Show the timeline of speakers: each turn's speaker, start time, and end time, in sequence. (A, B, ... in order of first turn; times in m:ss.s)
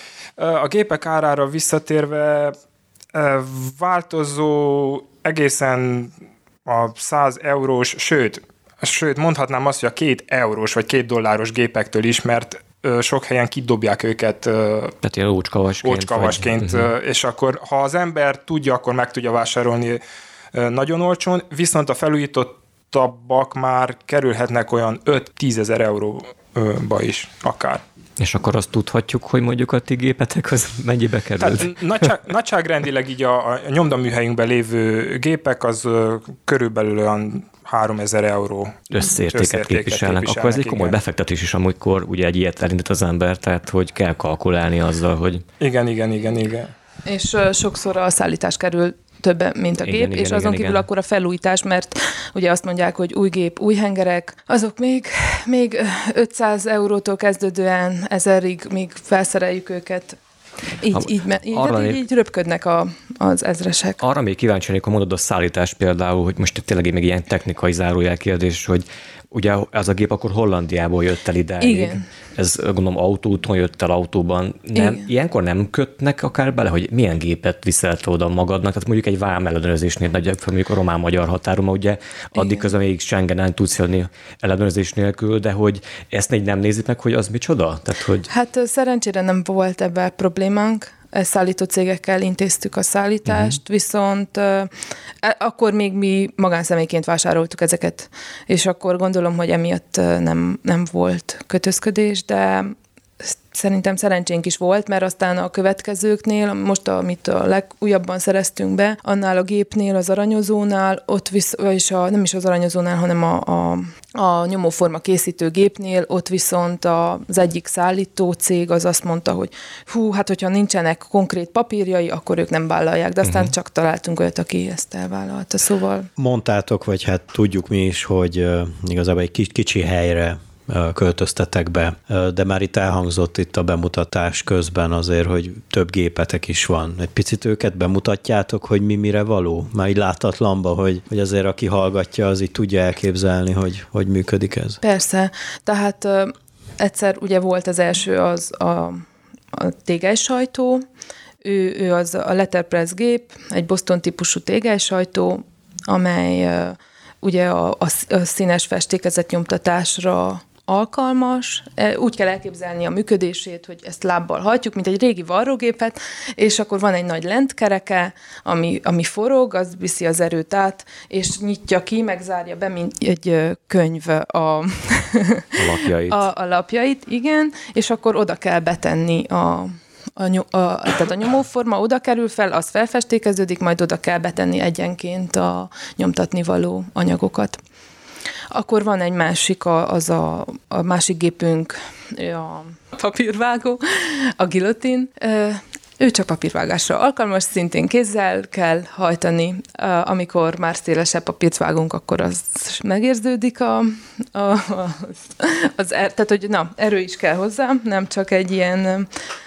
0:00.4-0:02.6 A
0:03.1-0:06.1 A
0:06.7-0:15.0 A
0:15.0-0:16.9 B
0:15.8-0:20.0 A
0:20.5-0:27.8 A
0:28.2-0:31.8 B
0:31.4-0:41.0 A
0:38.9-0:45.4 B
0:45.6-0:46.7 A
0:47.0-1:00.2 C
0:49.8-0:50.8 B
1:00.8-1:04.0 C
1:00.9-1:02.0 B
1:04.0-1:28.3 B
1:11.6-1:12.0 C
1:14.8-1:15.1 C
1:22.4-1:22.7 C
1:28.3-1:34.7 C
1:33.3-1:33.6 B
1:35.2-2:06.1 C
2:06.2-2:24.8 D
2:24.8-2:30.8 C
2:31.4-3:07.6 C
2:55.6-2:56.3 B
3:08.5-3:29.1 C